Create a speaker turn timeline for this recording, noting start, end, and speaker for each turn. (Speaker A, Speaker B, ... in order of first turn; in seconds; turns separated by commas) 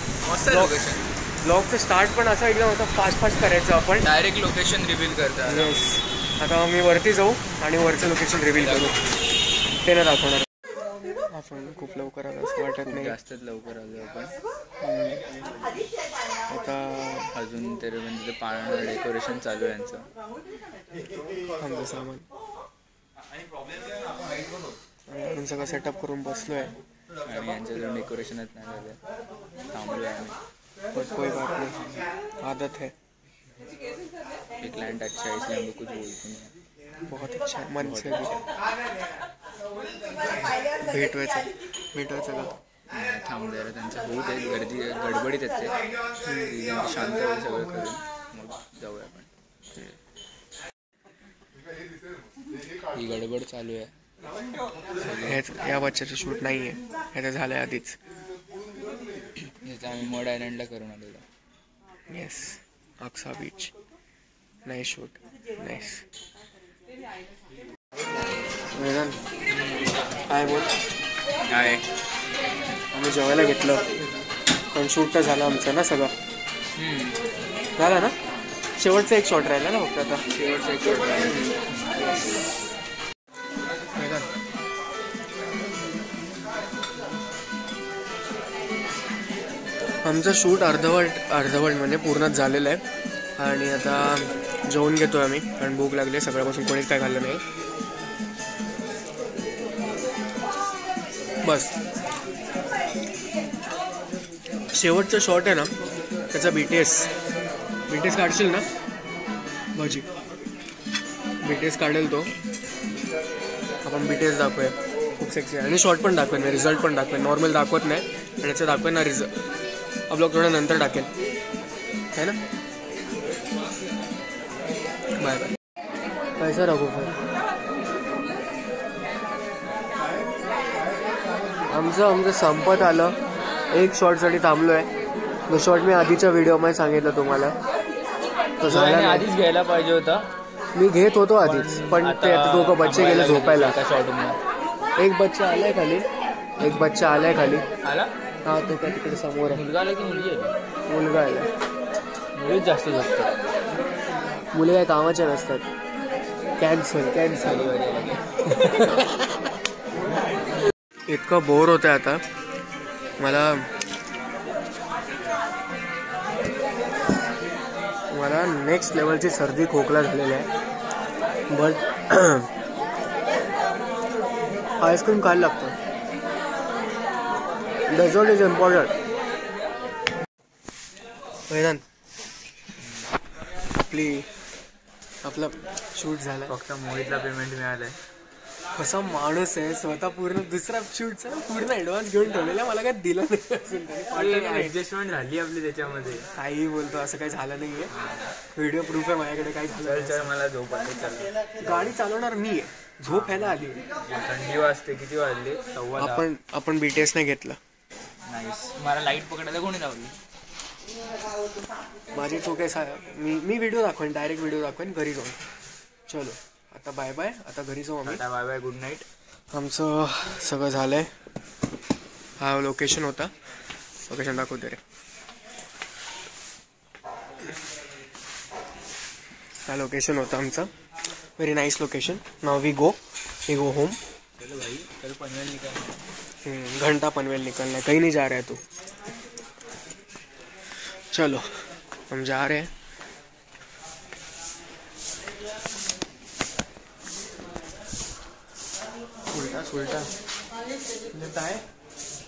Speaker A: 0.2-1.1, Speaker B: 0.5-0.8, Speaker B: 1.4-4.1, Speaker A: 4.0-5.8, Speaker B: 5.4-9.0, Speaker A: 8.5-9.1, Speaker B: 9.8-10.5, Speaker B: 11.3-13.2, Speaker A: 12.8-14.3, Speaker B: 14.8-15.2, Speaker B: 16.5-17.3, Speaker A: 17.3-20.1, Speaker B: 21.6-22.2, Speaker B: 25.1-26.8, Speaker A: 27.2-29.0, Speaker A: 29.7-30.4, Speaker B: 30.9-31.8, Speaker B: 32.4-32.9, Speaker A: 34.6-36.5, Speaker B: 37.0-38.3, Speaker A: 37.8-38.4, Speaker B: 40.8-42.5, Speaker A: 42.9-49.3, Speaker A: 52.9-53.9, Speaker A: 55.0-55.4, Speaker B: 55.0-58.0, Speaker A: 59.6-61.2, Speaker B: 62.1-63.7, Speaker B: 64.6-66.0, Speaker B: 68.7-69.2, Speaker A: 69.5-70.0, Speaker B: 70.3-70.7, Speaker A: 71.5-71.8, Speaker B: 72.9-73.8, Speaker B: 74.7-76.1, Speaker A: 76.8-77.2, Speaker B: 77.8-78.2, Speaker B: 78.8-80.2, Speaker A: 80.3-82.0, Speaker B: 84.0-84.3, Speaker B: 90.0-92.8, Speaker B: 93.4-97.4, Speaker B: 101.4-101.7, Speaker B: 104.7-105.7, Speaker B: 106.3-107.1, Speaker B: 107.9-108.7, Speaker B: 109.8-110.1, Speaker B: 111.4-112.3, Speaker B: 113.8-119.3, Speaker B: 120.1-121.1, Speaker B: 125.2-125.5, Speaker B: 126.4-127.2, Speaker B: 131.7-133.2, Speaker B: 133.7-134.9, Speaker B: 135.5-137.6, Speaker B: 138.6-139.3, Speaker A: 138.6-140.3, Speaker B: 140.7-143.8, Speaker A: 141.4-144.4, Speaker B: 145.0-146.1, Speaker B: 146.6-147.6, Speaker A: 147.8-148.1, Speaker B: 148.4-149.6, Speaker A: 149.5-150.5, Speaker B: 150.9-151.5, Speaker A: 152.3-153.3, Speaker B: 154.5-155.7, Speaker B: 156.6-157.7, Speaker A: 157.3-158.2, Speaker B: 158.5-159.1, Speaker B: 161.1-162.2, Speaker B: 163.2-163.7, Speaker B: 168.1-170.5, Speaker B: 171.5-172.5, Speaker B: 174.8-175.8, Speaker B: 177.9-178.9, Speaker B: 181.5-181.8, Speaker A: 182.8-183.1, Speaker B: 183.9-184.3, Speaker B: 185.2-186.5, Speaker A: 186.5-188.0, Speaker B: 188.7-194.8, Speaker A: 194.1-196.2, Speaker B: 196.3-197.9, Speaker A: 197.9-198.3, Speaker B: 198.5-200.3, Speaker A: 199.8-201.9, Speaker B: 201.6-203.8, Speaker A: 203.1-206.3, Speaker B: 205.9-207.6, Speaker A: 208.2-210.1, Speaker B: 212.1-215.4, Speaker B: 216.1-218.2, Speaker A: 218.0-219.1, Speaker B: 219.5-221.1, Speaker B: 222.4-223.3, Speaker B: 224.0-224.8, Speaker B: 229.7-230.7, Speaker B: 231.4-234.0, Speaker A: 234.4-236.0, Speaker B: 236.4-238.6, Speaker B: 241.1-242.7, Speaker B: 249.3-250.1, Speaker B: 251.1-251.6